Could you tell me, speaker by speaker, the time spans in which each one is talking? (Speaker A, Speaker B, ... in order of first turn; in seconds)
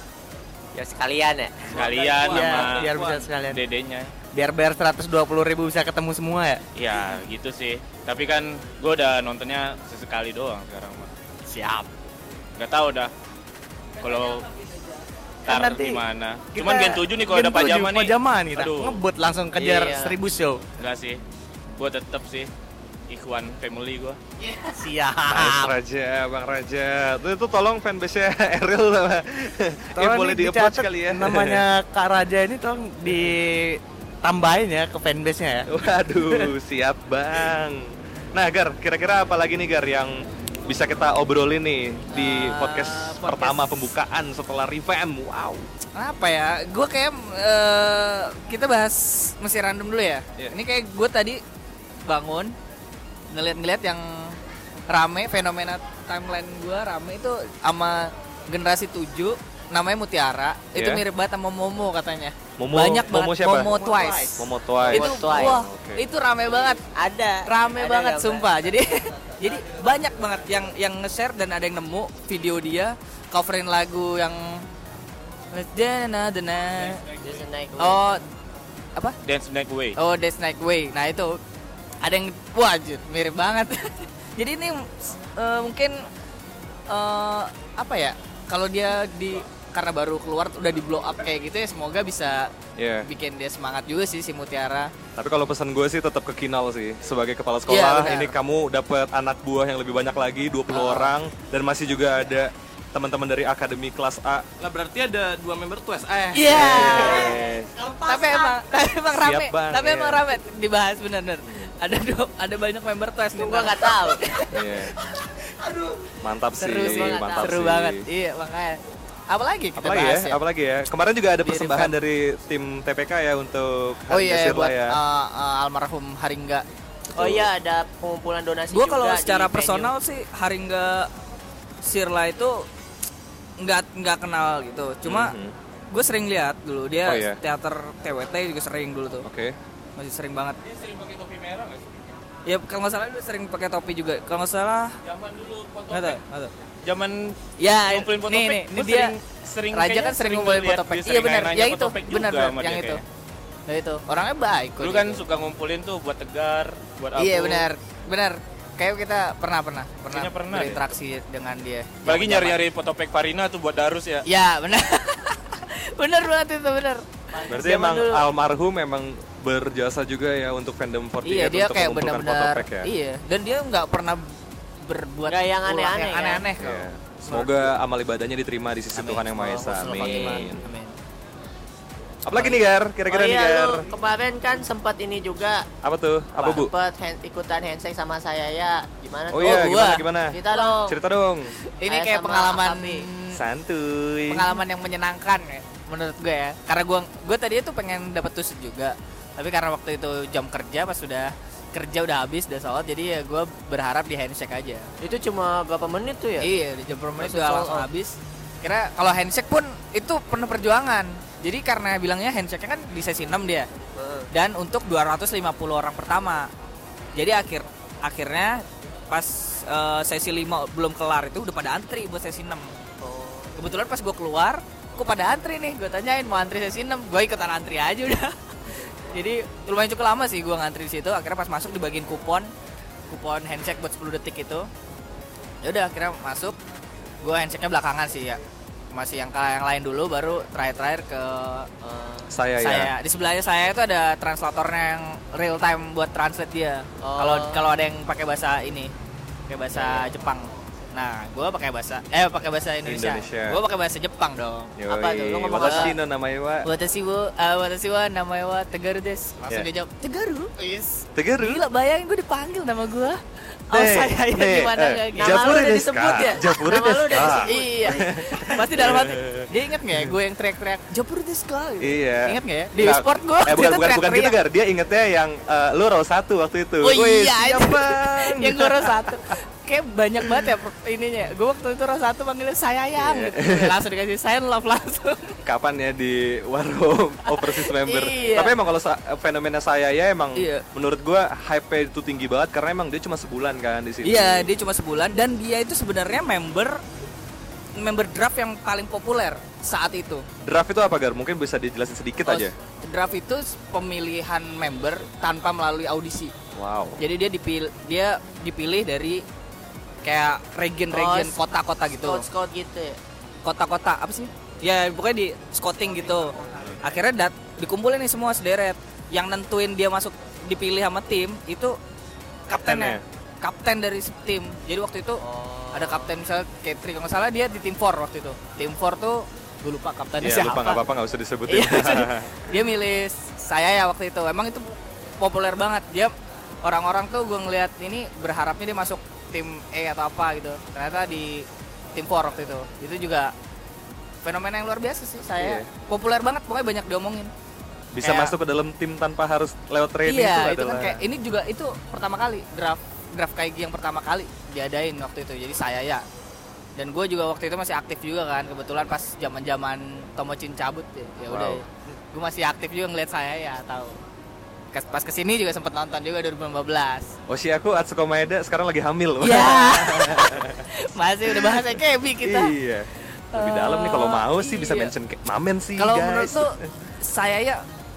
Speaker A: 0.7-1.8, 19.6-20.2, 64.8-65.6, 66.9-68.5, 77.2-78.0, 106.5-107.4, 113.4-114.2, 116.6-117.5, 127.2-129.9, 167.3-168.2, 175.3-176.5, 179.9-180.4, 183.1-185.7, 186.4-189.8, 190.3-191.0, 191.9-193.1, 205.0-206.5, 207.2-207.9, 214.0-214.3, 223.0-223.5, 241.8-242.3, 247.0-247.6, 249.7-250.1, 254.9-255.9, 264.4-268.1, 310.9-311.4, 312.1-313.0, 325.2-326.2
Speaker B: 1.7-3.3, 104.6-106.8
Speaker C: 1.7-3.0, 3.5-4.1, 6.8-11.1, 12.6-13.1, 14.0-14.5, 15.5-19.0, 20.8-21.2, 21.8-22.5, 23.1-24.2, 79.2-80.0, 140.6-141.9, 145.1-146.2, 146.8-153.0, 154.8-157.7, 160.1-160.9, 162.1-164.2
Speaker D: 2.2-3.6, 4.3-6.6, 11.5-11.9, 15.5-16.0, 16.5-20.6, 24.4-25.7, 30.0-35.7, 63.5-64.3
Speaker E: 25.3-31.6, 35.7-40.1, 40.6-45.6, 60.8-61.0, 62.6-63.7, 64.4-66.1, 92.8-93.1, 95.2-104.5, 106.5-107.7, 109.1-110.2, 111.5-111.7, 114.5-114.9, 116.2-118.0, 119.8-125.0, 127.2-127.5, 135.1-135.6, 137.1-137.4, 139.2-139.6, 167.5-172.9, 176.6-180.7, 182.3-183.9, 185.8-186.7, 189.3-191.5, 193.3-194.6, 242.3-242.9, 252.9-253.6, 254.8-256.7, 261.2-261.6, 263.7-270.1, 271.8-279.4, 280.2-280.5, 283.0-283.8, 285.4-294.5, 300.4-302.5, 306.6-307.0, 322.5-323.0, 330.2-332.6, 345.4-345.7, 347.9-351.0, 361.3-361.6, 367.3-370.6, 371.3-376.7
Speaker F: 42.1-43.6, 46.0-51.4, 52.1-52.5, 53.3-54.4, 54.9-66.8, 67.5-74.7, 75.5-77.0, 77.8-78.2, 80.0-81.4, 82.0-86.0, 86.9-92.5, 93.0-94.9, 97.7-98.3, 100.7-101.1, 106.3-107.4, 108.0-115.9, 116.6-118.8, 119.3-120.4, 121.4-121.9, 124.1-126.7, 128.7-131.1, 131.8-132.7, 133.6-135.3, 135.9-139.3, 140.0-140.6, 142.5-144.9, 145.9-146.5, 147.6-149.2, 149.7-153.0, 153.7-155.2, 157.2-162.6, 164.3-167.0, 171.2-174.2, 174.8-177.7, 178.9-180.9, 189.4-190.6, 191.8-193.4, 194.3-204.9, 206.4-213.7, 214.3-216.5, 217.2-222.7, 223.6-232.5, 233.1-234.7, 235.6-236.6, 237.2-238.4, 238.9-241.7, 242.6-248.9, 249.5-254.7, 255.6-255.9, 256.6-265.7, 267.1-274.4, 276.8-285.4, 287.3-288.6, 290.4-290.6, 294.0-296.8, 297.8-300.3, 302.3-306.3, 307.0-309.2, 310.0-312.3, 313.4-321.8, 322.5-325.2, 325.7-330.8, 331.5-334.7, 335.2-343.3, 344.2-347.3, 348.0-348.4, 350.1-356.0, 356.8-364.0, 364.7-367.1, 369.2-372.5, 373.2-374.9, 375.8-377.6